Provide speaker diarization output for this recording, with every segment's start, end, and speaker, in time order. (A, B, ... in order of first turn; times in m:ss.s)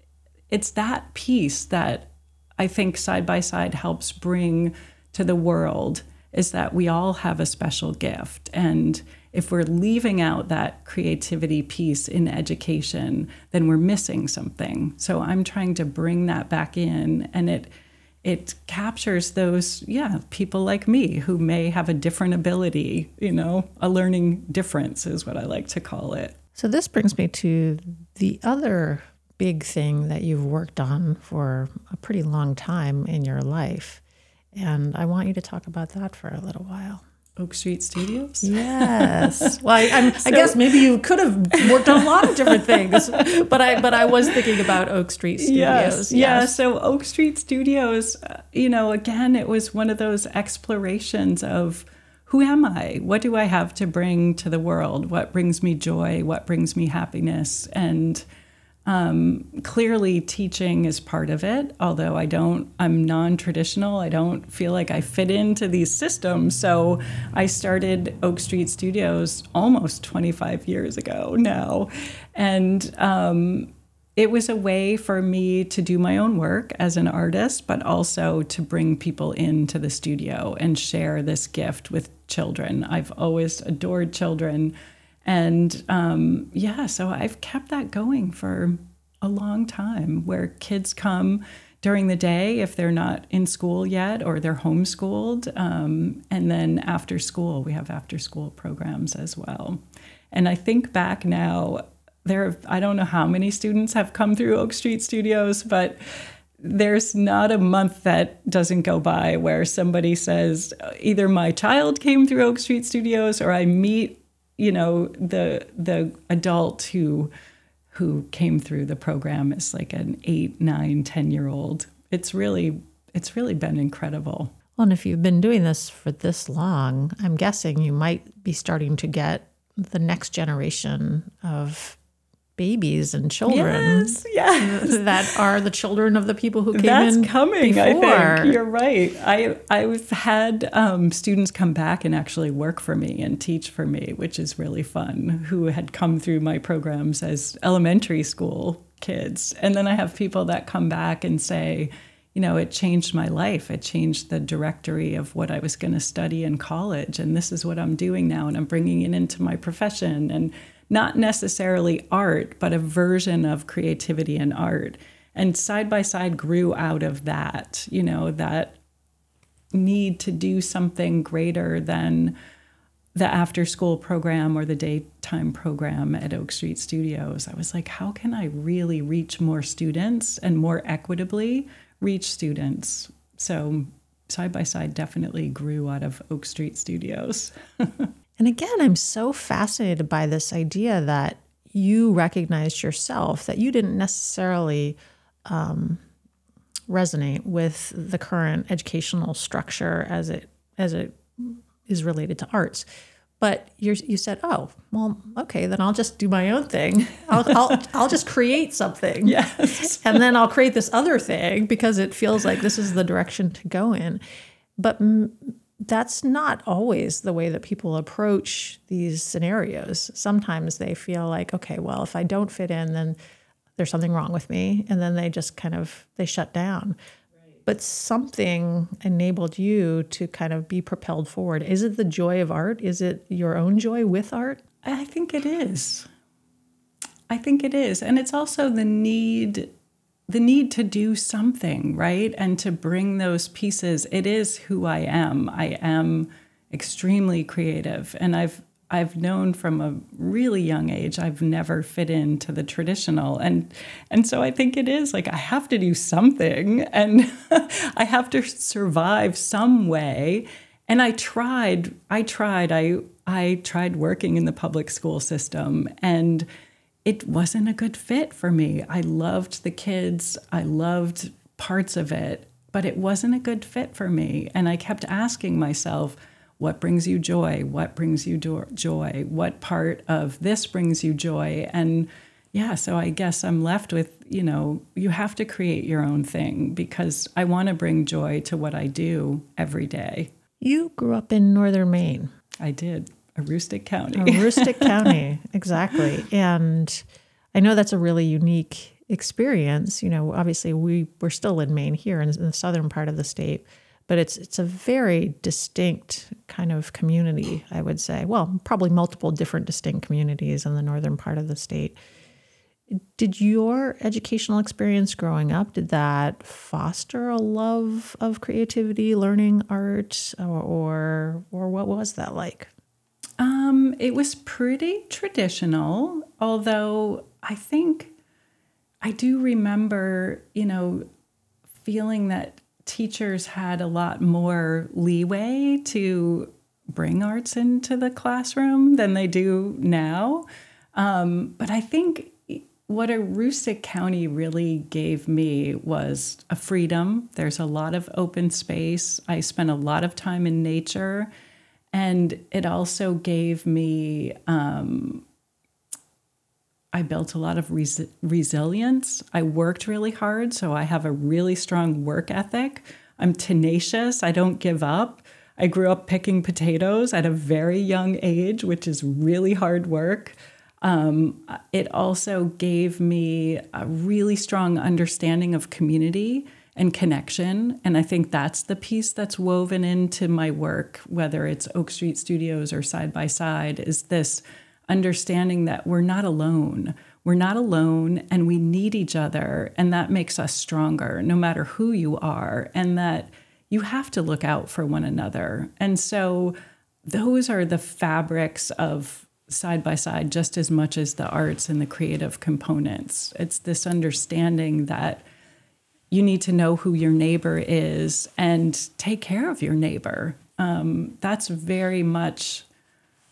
0:00.5-0:17.7 A
0:18.2-0:26.4 A
0:26.6-0:34.0 B
0:34.5-0:37.0 B
0:37.4-0:40.9 A
0:38.4-0:46.5 B
0:41.5-0:43.3 A
0:43.8-0:44.3 A
0:45.4-0:58.2 A
0:58.9-1:24.7 A
1:25.2-1:39.8 A
1:40.3-1:46.0 A
1:46.6-1:57.3 A
1:57.9-2:04.6 A
2:04.8-2:12.0 B
2:12.6-2:18.6 B
2:13.5-2:15.4 A
2:16.7-2:48.8 A
2:49.7-2:52.4 A
2:53.2-3:08.1 A
3:08.4-3:16.0 B
3:16.9-3:22.8 B
3:23.4-3:34.2 B
3:29.2-3:30.2 A
3:34.8-3:43.2 B
3:43.8-3:47.0 B
3:47.7-3:54.6 B
3:54.8-3:56.1 A
3:57.3-3:59.7 A
4:00.3-4:26.5 A
4:27.0-4:50.3 A
4:50.6-4:52.3 B
4:52.6-4:55.2 A
4:54.2-4:57.0 B
4:57.5-5:12.0 B
5:12.9-5:22.7 B
5:23.4-5:28.1 A
5:29.0-5:31.1 A
5:31.8-5:51.3 A
5:51.9-5:55.2 A
5:56.9-6:36.6 A
6:37.1-6:45.2 A
6:46.1-6:52.7 A